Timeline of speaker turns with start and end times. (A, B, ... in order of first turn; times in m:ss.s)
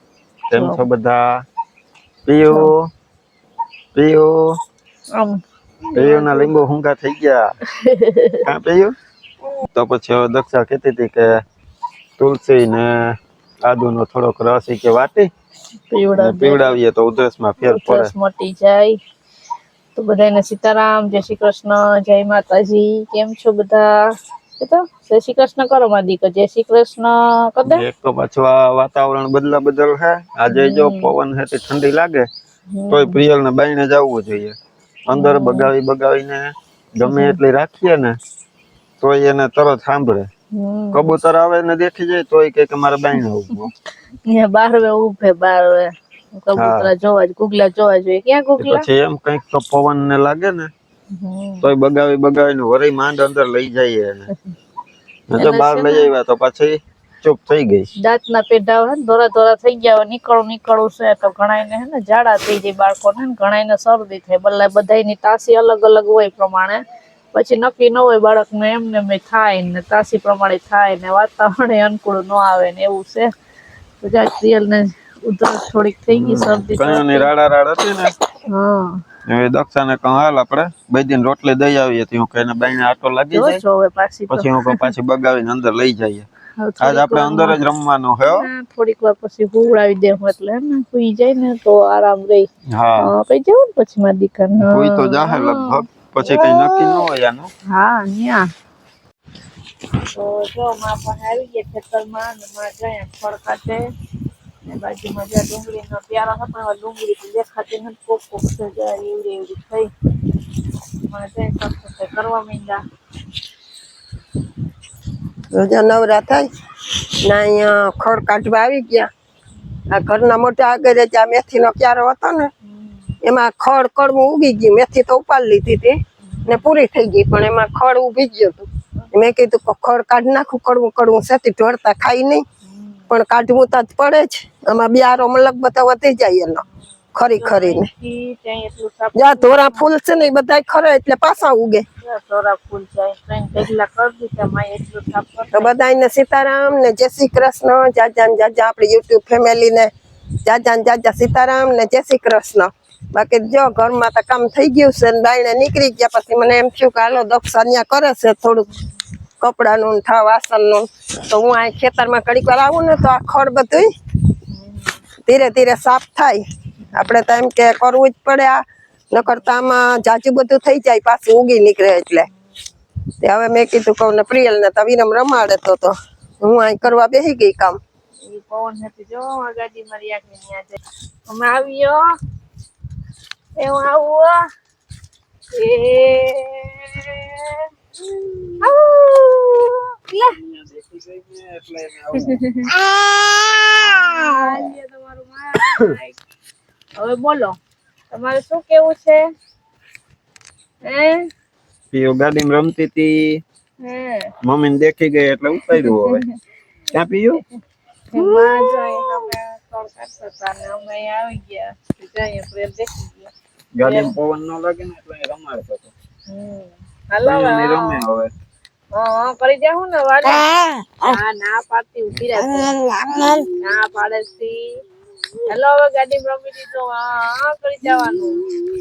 0:00.5-0:01.4 A
0:00.5-0:00.8 B
0:02.2-0:02.9 A
0:03.9-0:04.5 A
0:05.9-0:06.5 B
0:05.9-0:07.5 A
0:07.7-0:08.5 B
0:08.4-0:08.9 A
0:09.7-0:11.4 A
0:12.2-0:15.3 A
0:15.9-0:16.8 B
0:16.2-0:18.1 A
0:17.6-0:19.0 B
0:19.9-0:23.9 B
0:24.6-0:27.8 B
0:27.6-0:32.3 A
0:30.5-0:31.1 B
0:32.7-0:33.2 B
0:32.9-0:34.6 A
0:35.1-0:38.2 A
0:35.1-0:35.7 B
0:37.0-0:37.4 B
0:39.0-0:40.3 A
0:40.5-0:41.1 B
0:40.9-0:43.7 A
0:44.2-0:48.8 B
0:46.6-0:46.9 A
0:48.6-0:50.7 A
0:51.1-0:51.7 B
0:51.6-0:54.3 A
0:55.3-0:57.9 A
0:55.4-0:56.1 B
0:58.0-1:06.8 B
1:07.3-1:13.3 B
1:14.0-1:17.3 B
1:16.1-1:18.2 A
1:18.5-1:19.0 B
1:19.3-1:23.6 A
1:23.3-1:24.8 B
1:24.3-1:26.2 A
1:26.6-1:27.6 B
1:26.8-1:28.4 A
1:28.2-1:32.5 B
1:32.7-1:33.1 A
1:33.0-1:37.0 B
1:34.7-1:37.5 A
1:37.7-1:38.5 B
1:40.1-1:43.8 B
1:44.6-1:49.9 B
1:51.0-1:52.8 B
1:55.5-1:56.5 C
1:57.2-1:59.1 C
1:59.9-2:02.5 C
2:02.6-2:03.2 B
2:03.2-2:12.4 C
2:06.3-2:06.6 B
2:12.6-2:13.1 B
2:13.1-2:16.6 C
2:17.1-2:17.9 C
2:17.2-2:19.8 B
2:19.1-2:21.8 C
2:22.0-2:25.7 B
2:25.5-2:29.9 C
2:30.4-2:38.7 C
2:39.4-2:43.9 C
2:44.5-2:44.9 B
2:45.2-2:46.4 C
2:46.8-2:47.1 B
2:46.9-2:52.2 C
2:53.2-2:57.8 C
2:58.2-3:02.1 B
3:03.6-3:04.4 B
3:05.5-3:07.6 B
3:08.6-3:10.4 B
3:10.3-3:12.4 A
3:12.1-3:12.7 B
3:13.7-3:16.2 B
3:17.0-3:17.6 B
3:18.1-3:19.2 B
3:20.8-3:21.3 B
3:21.9-3:23.4 A
3:23.8-3:24.3 B
3:24.4-3:26.2 A
3:25.6-3:26.3 B
3:26.9-3:27.4 A
3:28.1-3:33.3 B
3:28.2-3:28.9 A
3:33.7-3:35.9 A
3:33.8-3:34.1 B
3:36.3-3:38.0 B
3:37.2-3:38.3 A
3:38.9-3:40.5 B
3:41.0-3:42.8 B
3:42.6-3:43.4 C
3:43.6-3:44.7 B
3:45.4-3:48.4 B